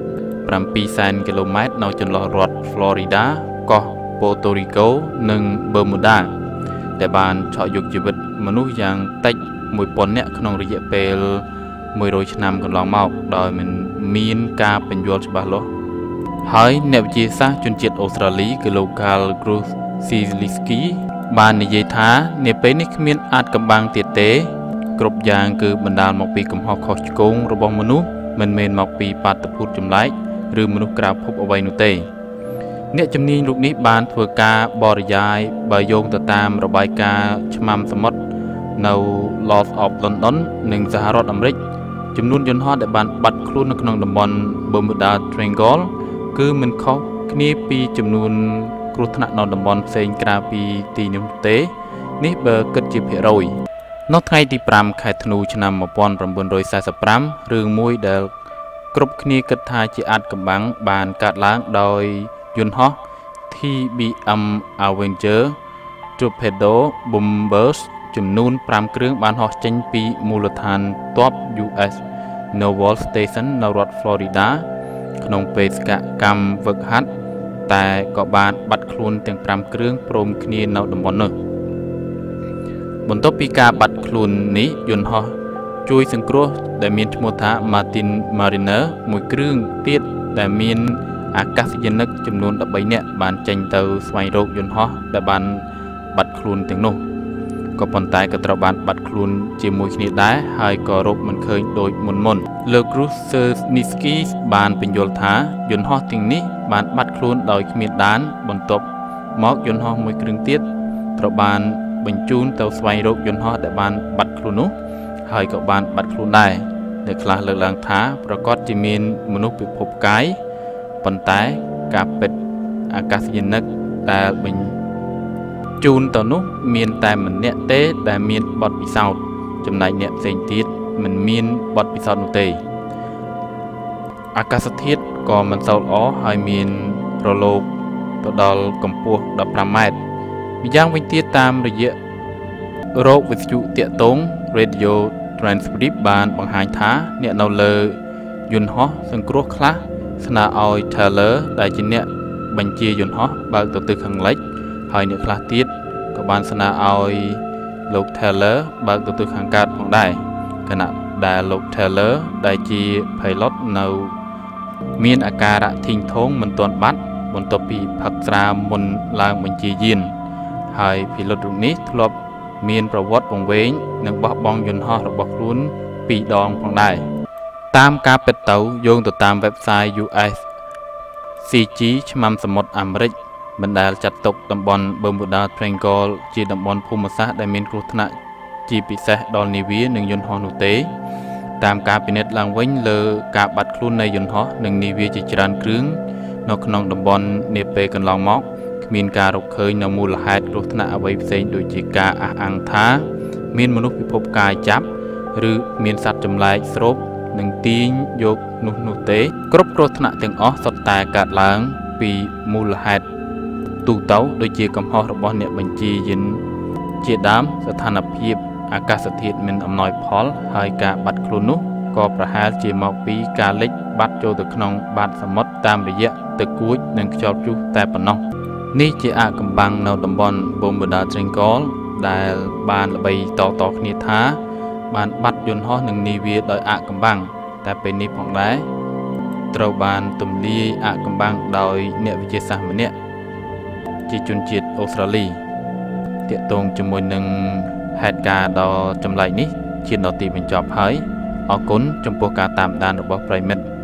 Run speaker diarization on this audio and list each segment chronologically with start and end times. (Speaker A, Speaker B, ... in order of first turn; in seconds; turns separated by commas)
Speaker A: 0.5-6.3, Speaker A: 7.0-15.7, Speaker A: 16.4-32.1, Speaker A: 32.9-38.2, Speaker A: 38.8-41.6, Speaker A: 42.1-53.6, Speaker A: 54.1-58.3, Speaker A: 58.9-65.6, Speaker A: 66.2-74.7, Speaker A: 75.2-77.1, Speaker A: 77.7-81.3, Speaker A: 83.1-97.0, Speaker A: 97.8-110.7, Speaker A: 111.2-114.7, Speaker A: 115.3-120.4, Speaker A: 121.0-122.4, Speaker A: 122.9-124.8, Speaker A: 125.8-132.6, Speaker A: 134.3-137.7, Speaker A: 138.2-140.0, Speaker A: 140.6-142.0, Speaker A: 142.9-164.2, Speaker A: 165.0-170.1, Speaker A: 170.7-177.1, Speaker A: 177.7-180.4, Speaker A: 181.4-188.2, Speaker A: 188.7-190.9, Speaker A: 191.6-213.1, Speaker A: 213.8-216.4, Speaker A: 217.0-238.7, Speaker A: 239.5-242.9, Speaker A: 244.1-245.4, Speaker A: 246.3-253.7